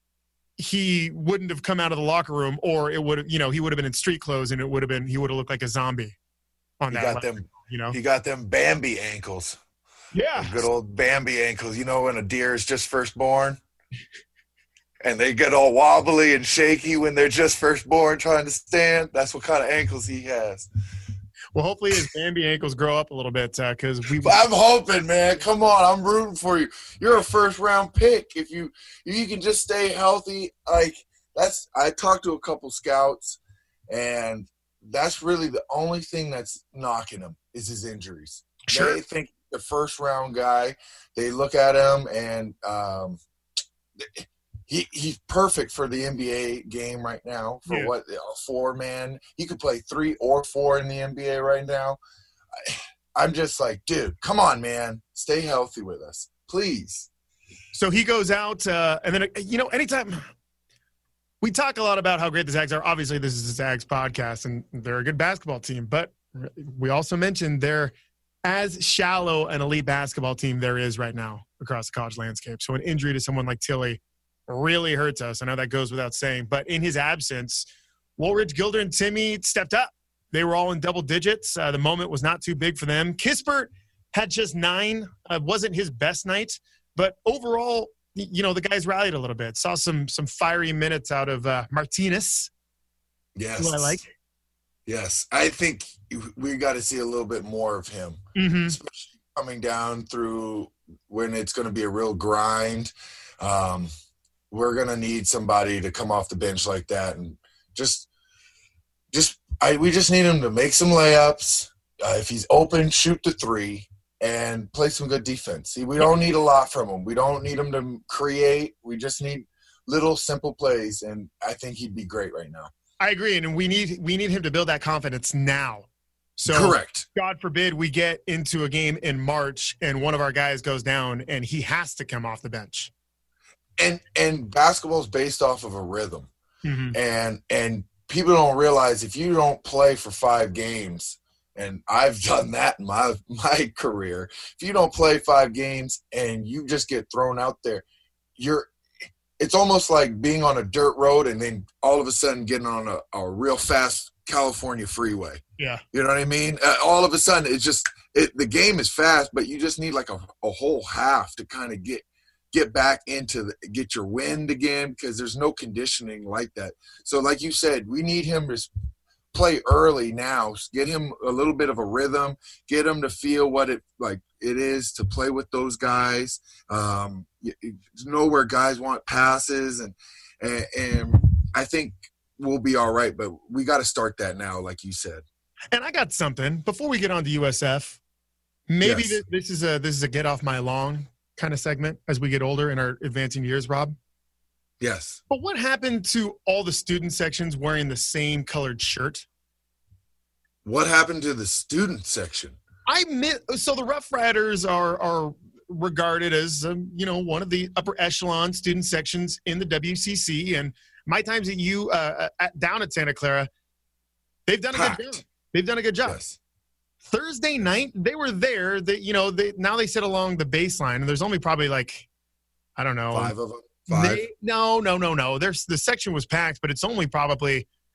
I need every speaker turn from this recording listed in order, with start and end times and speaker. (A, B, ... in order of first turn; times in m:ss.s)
0:00.6-0:06.2 A
0:06.8-0:08.0 A
0:06.9-0:09.6 B
0:10.1-0:10.7 A
0:10.4-0:13.6 B
0:15.0-0:20.7 B
0:21.6-0:24.4 A
0:24.2-0:43.2 B
0:38.6-0:39.0 A
0:44.0-0:52.0 B
0:52.6-0:57.1 B
0:57.7-1:00.2 A
1:01.4-1:07.9 A
1:08.4-1:17.7 A
1:18.2-1:32.5 A
1:33.4-1:34.0 B
1:33.6-1:34.1 A
1:34.9-1:43.9 B
1:38.4-1:38.8 A
1:44.5-1:48.1 B
1:49.1-2:02.7 B
2:03.0-2:12.9 A
2:06.5-2:07.1 B
2:13.8-2:16.3 B
2:16.6-2:17.0 A
2:16.9-2:27.8 B
2:28.4-2:28.7 B
2:29.4-2:35.4 B
2:35.9-2:48.7 B
2:49.3-3:05.2 B
3:05.7-3:08.0 A
3:08.7-3:14.0 A
3:08.8-3:09.2 B
3:14.8-3:15.2 B
3:15.3-3:19.3 A
3:20.6-3:22.6 B
3:22.9-3:33.5 A
3:34.5-3:36.2 A
3:34.7-3:35.0 B
3:36.0-3:36.4 B
3:37.0-3:42.1 A
3:42.8-3:43.3 A
3:43.1-3:44.2 B
3:43.9-3:47.7 A